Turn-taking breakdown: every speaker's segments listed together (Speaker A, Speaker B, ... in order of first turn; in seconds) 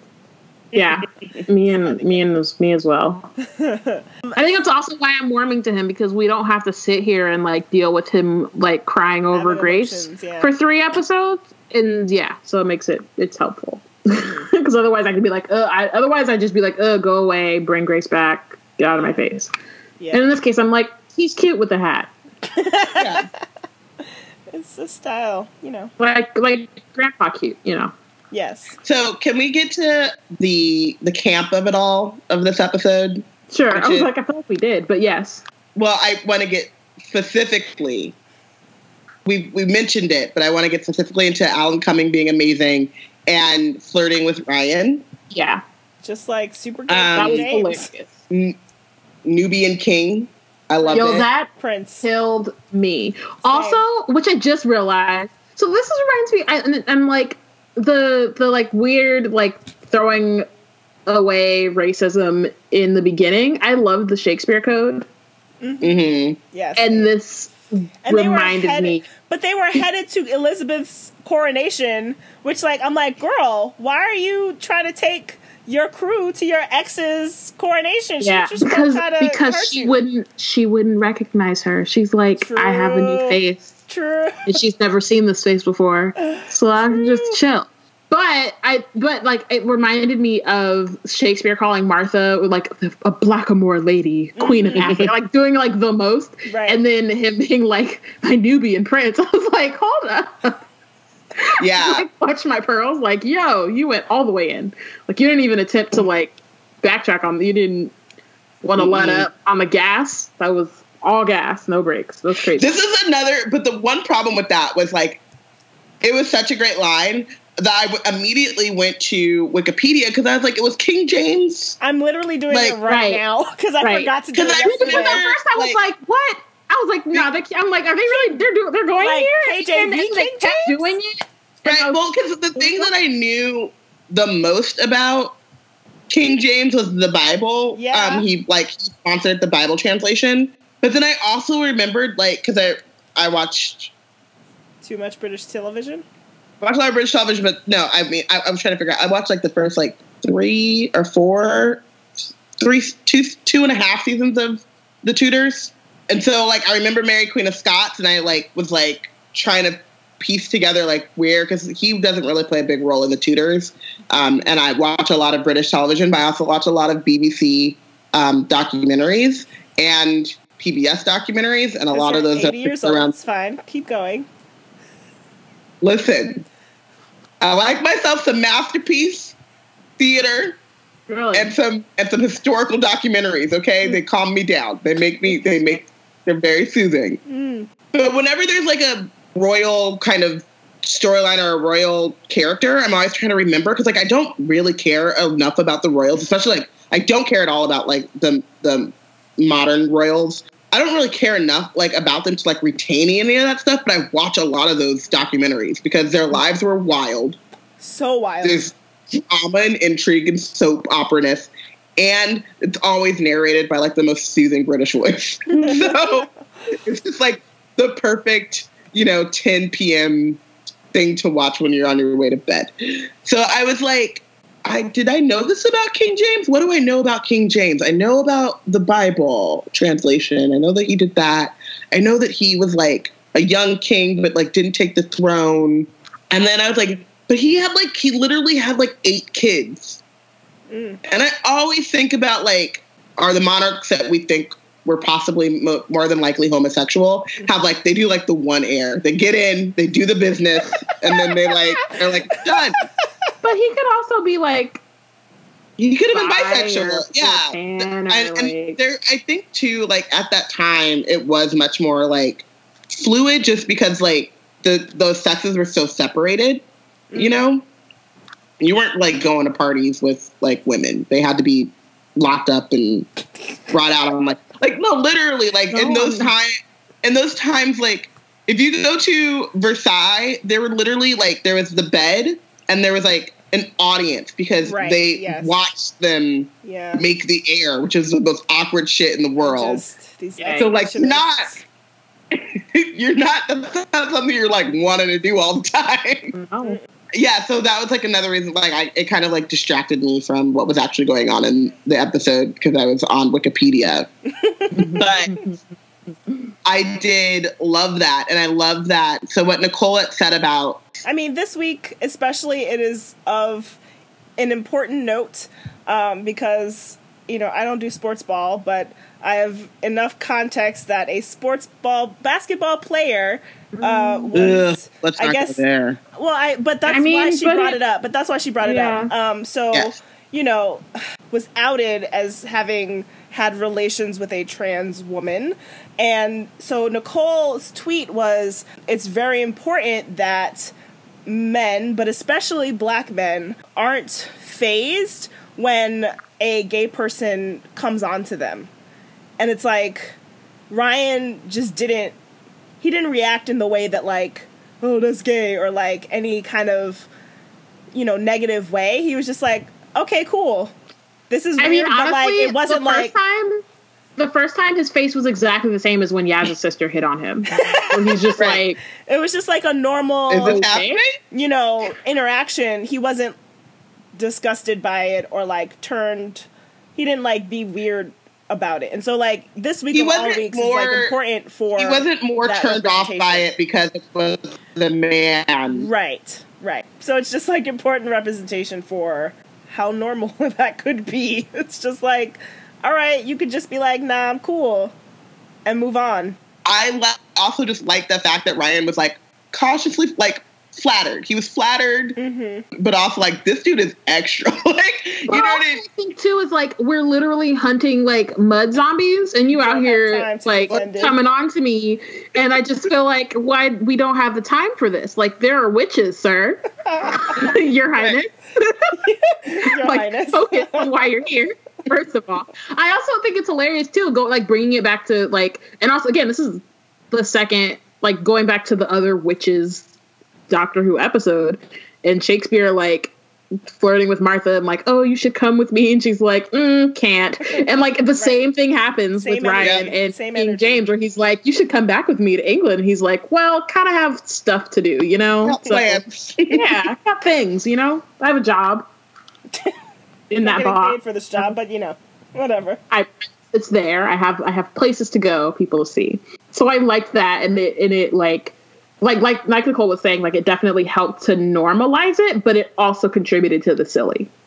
Speaker A: 0.7-3.3, 4.4-19.5, 20.1-22.1, 26.0-27.9, 33.5-35.4, 45.3-45.6, 47.2-48.1, 50.9-51.5, 52.0-60.5, 61.1-65.1, 66.8-69.1, 78.2-83.7, 84.5-100.6, 101.5-108.0, 108.6-112.7, 122.9-123.2, 123.8-124.1, 124.6-132.0, 132.6-132.9, 181.1-181.5, 253.4-254.8, 256.1-258.8, 275.7-276.3, 290.4-290.7, 296.3-296.8, 304.8-305.6, 323.7-324.3, 326.9-327.8, 328.6-329.1, 361.6-363.6, 364.2-368.8, 370.4-371.0, 405.3-419.0, 419.8-429.9, 430.5-433.1, 433.7-448.9, 450.3-451.5, 452.9-464.3
Speaker B: 1.6-2.2, 3.5-4.4, 9.3-10.5, 20.0-20.2, 22.4-23.1, 24.5-25.9, 28.3-28.8, 46.0-47.9, 50.8-52.1, 53.5-53.8, 65.6-67.1, 68.0-80.0, 82.4-84.6, 86.2-87.4, 94.4-94.9, 96.5-96.8, 121.8-125.2, 128.1-128.4, 129.0-130.9, 137.7-138.3, 144.8-146.1, 171.9-174.3, 187.3-187.7, 207.8-208.7, 215.6-216.3, 240.7-241.0, 251.1-251.6, 267.1-267.5, 284.6-285.6, 286.6-287.0, 289.4-291.6, 304.4-305.1, 311.0-313.8, 314.4-325.6, 326.1-340.7, 341.3-348.7, 349.4-350.2, 350.7-352.2, 352.8-357.1, 357.9-360.7, 361.3-363.1, 367.5-368.3, 369.1-370.6, 371.3-373.4, 374.1-383.5, 385.7-394.9, 395.6-396.4, 402.2-402.6, 409.5-411.2, 416.9-417.5, 419.1-420.9, 439.2-440.8, 450.4-452.8
Speaker C: 23.0-23.3, 28.8-34.1, 35.8-38.1, 39.2-45.1, 46.9-47.5, 48.3-48.6, 49.2-51.3, 65.8-66.4, 94.8-95.1, 101.6-102.0, 108.8-109.3, 112.6-115.2, 116.0-121.8, 122.5-122.8, 124.3-125.8, 131.7-135.4, 136.1-143.9, 146.6-151.8, 152.6-173.1, 175.8-176.4, 177.4-179.3, 180.0-180.6, 181.3-187.2, 187.9-207.4, 208.4-220.4, 220.9-240.0, 241.1-252.8, 255.8-266.6, 267.2-267.6, 268.6-273.1, 273.7-289.8, 290.6-291.5, 292.3-296.3, 297.1-304.1, 305.0-305.3, 306.6-311.0, 324.4-326.0, 329.7-330.0, 370.3-371.1, 379.9-381.1, 381.8-385.9, 396.6-402.2, 402.8-405.8, 439.6-439.9, 445.4-446.9